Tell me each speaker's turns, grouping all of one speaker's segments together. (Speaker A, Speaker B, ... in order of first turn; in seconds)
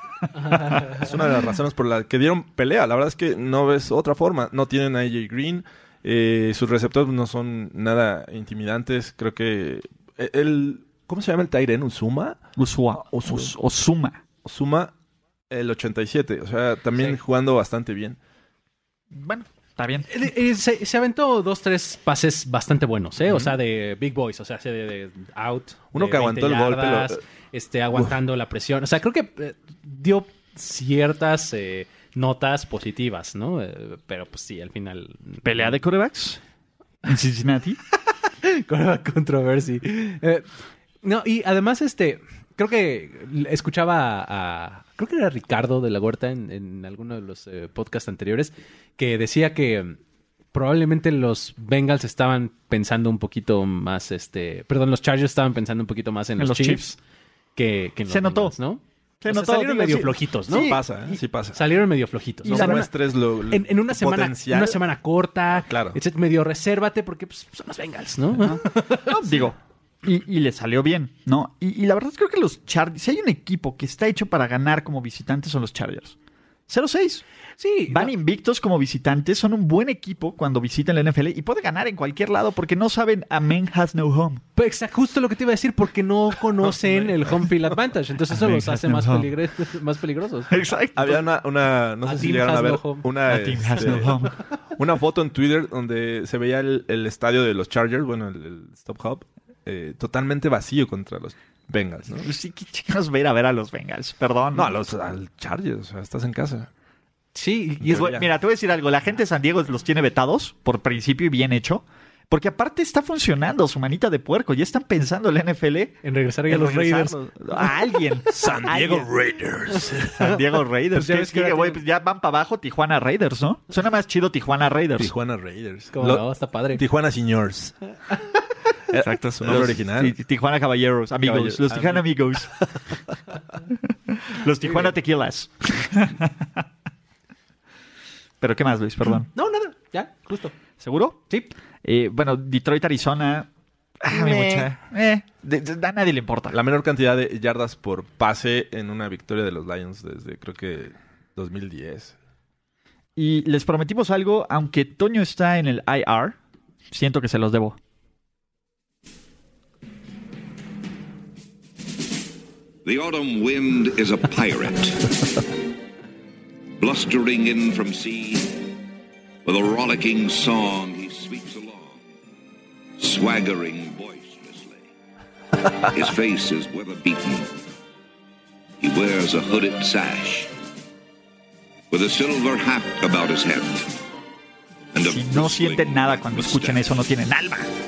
Speaker A: 0.4-12.4, 13.0-13.5, 14.4-14.9, 15.5-18.2, 23.2-23.5, 25.9-27.2, 60.5-61.6, 62.5-64.8, 65.5-66.0, 86.6-87.7, 91.0-102.3, 104.5-106.7, 107.8-108.3, 116.8-117.2, 118.3-120.2, 125.0-127.8, 128.9-130.2, 131.2-132.0, 146.5-152.1
Speaker B: 0.5-1.0, 20.1-35.8, 38.4-40.5, 41.0-50.0, 50.5-56.9, 57.5-60.7, 61.5-62.9, 63.5-69.2, 77.6-78.1, 84.6-90.6, 92.0-93.0, 107.3-108.1, 116.0-117.2, 120.9-121.8, 125.9-126.8, 134.6-134.9, 139.3-140.5, 144.1-144.7
Speaker C: 12.6-14.2, 19.1-20.1, 35.4-36.4, 37.0-37.8, 56.4-57.0, 58.1-58.5, 59.2-61.2, 62.4-62.9, 68.4-76.2, 76.7-77.2, 77.9-84.4, 88.3-89.3, 90.5-91.3, 93.3-94.3, 102.2-105.2, 107.8-116.0, 116.5-119.1, 120.1-125.1, 128.9-132.5, 134.1-136.6, 138.4-139.3, 140.8-141.3, 141.8-143.5, 144.0-146.6, 153.2-156.4, 156.9-157.8, 185.0-187.7
Speaker D: 162.8-165.1, 166.8-168.7, 169.4-172.0, 173.0-174.8, 175.8-177.5, 178.8-180.5, 181.9-183.9, 184.9-186.8